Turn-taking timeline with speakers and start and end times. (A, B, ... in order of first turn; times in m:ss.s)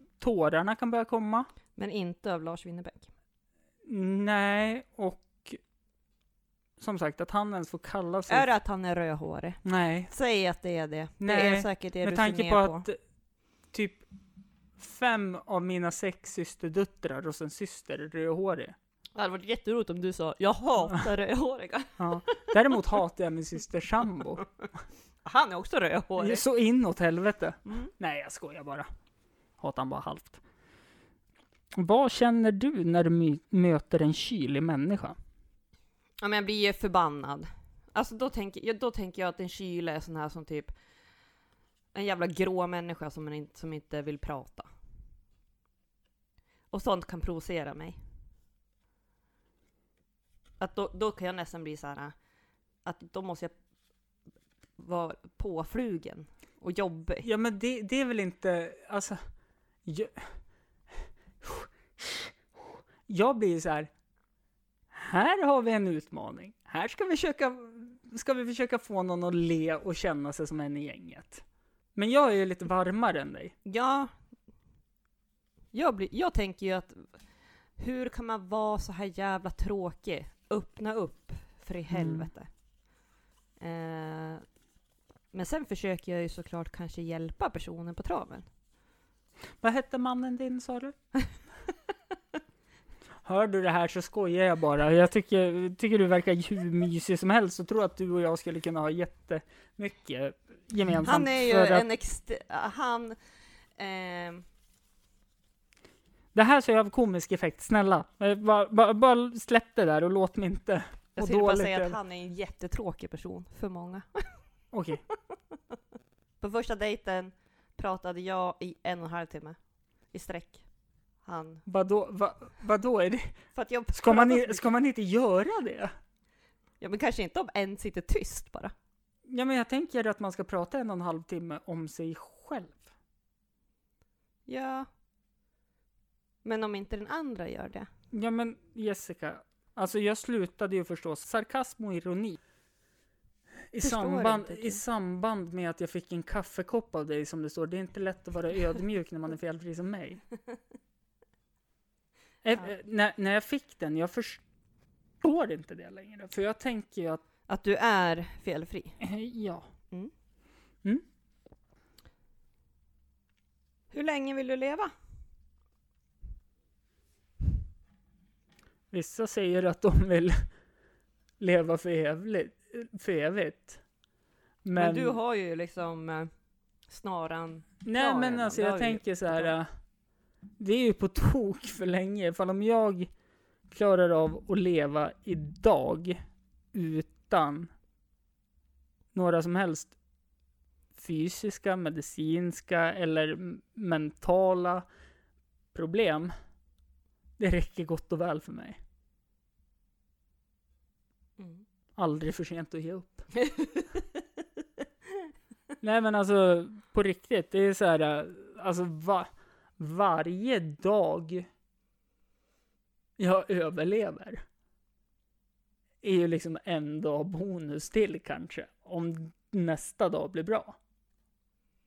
0:00.2-0:01.5 A
0:01.8-0:03.1 B
0:03.8-0:05.6 A
0:06.8-0:08.5 A
0:08.3-0:12.8 B
0:09.6-0:10.1 A
0:11.2-0:13.0 A
0:13.7-0:14.0 A
0:14.8-0:18.7 A
0:19.1-0:22.8 B
0:22.0-0:24.5 A
0:25.2-0:26.4 B
0:26.2-0:28.9 A
0:27.6-0:27.9 B
0:29.6-0:30.4 A
0:31.7-0:35.2 A
0:36.2-0:40.7 B
0:41.9-0:44.7 B
0:46.7-0:48.0 B
0:50.6-0:52.1 B
0:52.8-0:53.5 B
0:54.8-0:57.3 B
0:57.2-0:59.2 A
0:59.8-1:00.4 A
1:01.4-1:02.3 A
1:03.1-1:03.9 A
1:04.9-1:11.4 A
1:11.9-1:13.5 A
1:13.6-1:14.1 B
1:15.7-1:17.2 B
1:17.8-1:22.5 B
1:21.9-1:22.3 A
1:23.6-1:24.4 B
1:25.3-1:28.5 B
1:29.6-1:31.0 A
1:33.2-1:41.8 A
1:41.0-1:43.2 B
1:43.8-1:44.4 B
1:46.3-1:52.0 A
1:51.2-1:54.4 B
1:54.7-1:55.0 A
1:55.1-1:55.8 B
1:56.4-1:59.6 B
2:00.1-2:00.6 B
2:01.2-2:01.6 B
2:01.6-2:03.3 A
2:03.5-2:04.7 B
2:03.9-2:05.9 A
2:06.8-2:08.7 B
2:09.3-2:12.8 A
2:14.4-2:14.9 B
2:16.4-2:17.9 B
2:18.1-2:22.4 A
2:23.7-2:30.2 A
2:23.8-2:24.8 B
2:32.4-2:34.4 A
2:35.2-2:37.2 A
2:37.5-2:39.0 B
2:39.0-2:39.7 A
2:43.9-2:44.9 B
2:48.9-2:50.5 A
2:51.4-2:53.8 A
2:54.6-2:55.2 A
2:54.7-2:56.3 B
2:56.9-2:59.5 B
2:57.8-2:59.7 A
3:00.6-3:03.1 A
3:03.7-3:06.2 A
3:06.7-3:07.7 A
3:09.1-3:09.9 A
3:11.0-3:14.8 A
3:15.7-3:16.3 A
3:17.4-3:18.8 A
3:21.4-3:21.6 B
3:22.0-3:23.3 A
3:23.3-3:24.2 B
3:25.8-3:31.5 A
3:33.2-3:34.4 A
3:36.0-3:40.8 A